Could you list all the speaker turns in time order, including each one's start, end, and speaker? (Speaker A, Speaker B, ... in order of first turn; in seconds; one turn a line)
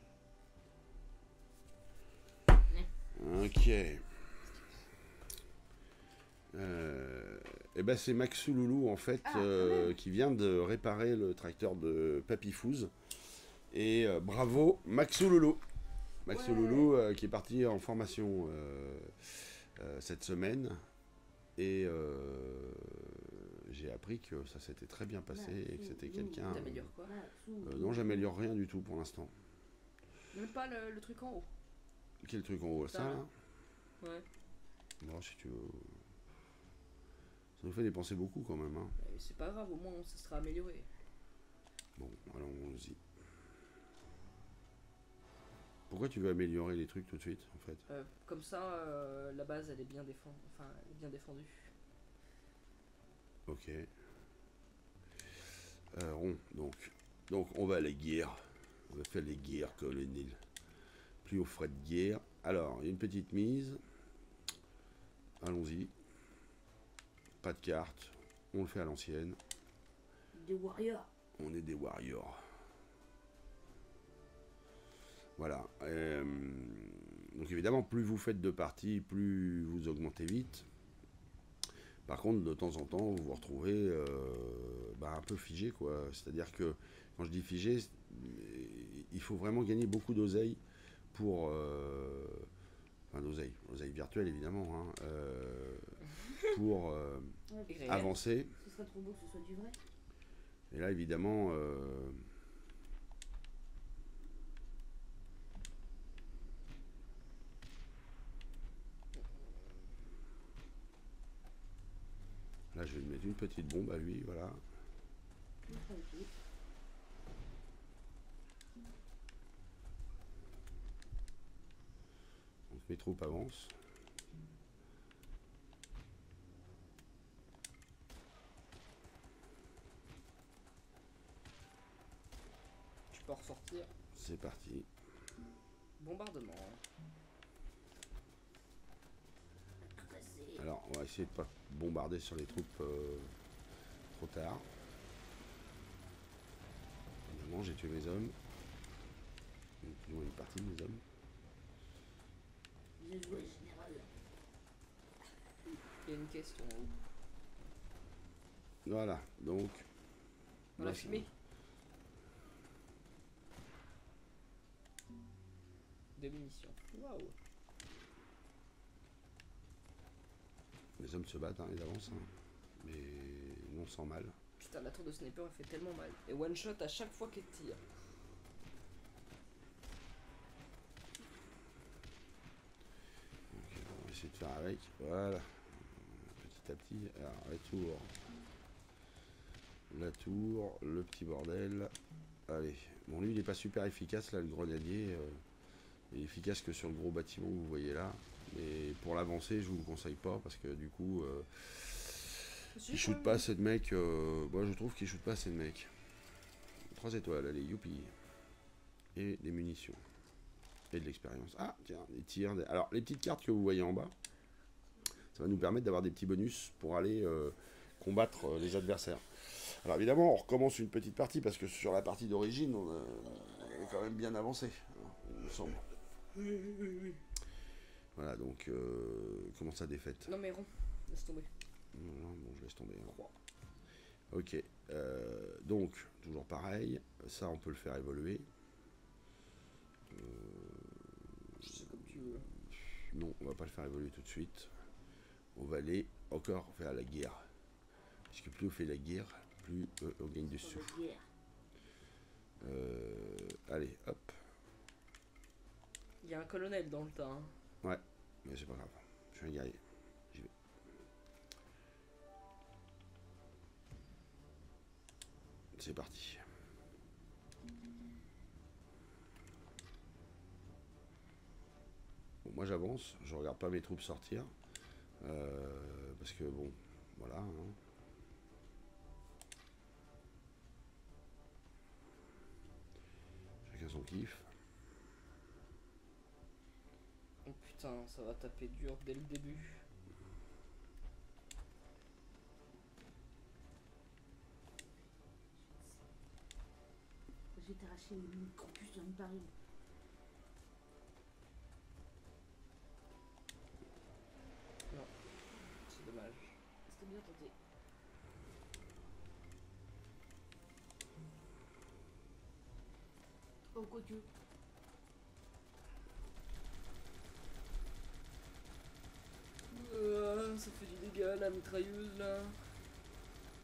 Speaker A: 3.1-4.0
Speaker A: 6.5-12.9
Speaker B: 9.2-9.9
Speaker A: 13.7-15.6
Speaker A: 16.2-20.8
Speaker B: 16.3-16.9
Speaker A: 21.6-26.9
Speaker B: 25.3-28.3
Speaker C: 26.4-27.1
Speaker A: 27.6-29.3
Speaker C: 30.3-31.5
Speaker A: 32.2-33.3
Speaker C: 32.9-33.2
Speaker A: 35.0-35.9
Speaker A: 37.6-39.0
Speaker C: 39.0-40.9
Speaker A: 42.0-43.0
Speaker A: 45.9-47.8
Speaker C: 47.9-51.7
Speaker A: 53.5-53.9
Speaker A: 55.9-58.4
Speaker A: 58.9-60.4
Speaker A: 61.2-63.8
Speaker A: 65.4-65.9
Speaker A: 67.4-69.4
Speaker B: 70.3-71.1
Speaker A: 71.4-72.4
Speaker A: 75.4-80.7
Speaker A: 82.1-90.6
Speaker A: 91.1-92.5
Speaker A: 93.1-98.5
Speaker B: 97.5-97.9
Speaker C: 97.7-98.2
Speaker B: 98.6-99.8
Speaker A: 100.7-102.2
Speaker C: 109.1-109.9
Speaker A: 112.7-114.6
Speaker B: 115.7-116.3
Speaker A: 122.7-123.7
Speaker C: 133.1-133.9
Speaker A: 134.1-134.9
Speaker C: 136.0-136.8
Speaker B: 139.9-140.6
Speaker A: 140.6-143.3
Speaker A: 144.1-144.7
Speaker A: 147.3-148.3
Speaker A: 149.8-151.0
Speaker B: 153.0-154.1
Speaker C: 156.0-156.9
Speaker A: 158.8-159.8
Speaker C: 160.8-161.3
Speaker A: 160.8-161.3
Speaker C: 166.2-167.3
Speaker A: 171.0-174.3
Speaker C: 174.6-177.8
Speaker A: 183.5-188.1
Speaker A: 189.9-191.9
Speaker A: 192.5-195.4
Speaker A: 196.1-205.9
Speaker B: 202.7-203.4
Speaker A: 206.9-208.1
Speaker A: 209.1-210.0
Speaker A: 210.9-214.1
Speaker A: 215.3-225.8
Speaker A: 226.4-227.2
Speaker A: 228.1-230.3
Speaker C: 230.3-231.5
Speaker A: 231.9-233.3
Speaker A: 234.3-238.5
Speaker A: 240.1-241.7
Speaker C: 241.6-242.5
Speaker A: 242.7-244.7
Speaker A: 245.6-247.4
Speaker A: 248.3-251.0
Speaker B: 250.5-251.3
Speaker A: 252.6-254.3
Speaker C: 256.2-257.5
Speaker A: 257.8-259.8
Speaker A: 265.7-266.4
Speaker A: 272.4-274.5
Speaker A: 275.2-277.8
Speaker A: 283.6-284.5
Speaker C: 287.4-289.8
Speaker B: 297.5-299.5
Speaker C: 305.8-306.6
Speaker B: 306.9-307.5
Speaker B: 313.7-314.2
Speaker C: 319.7-322.6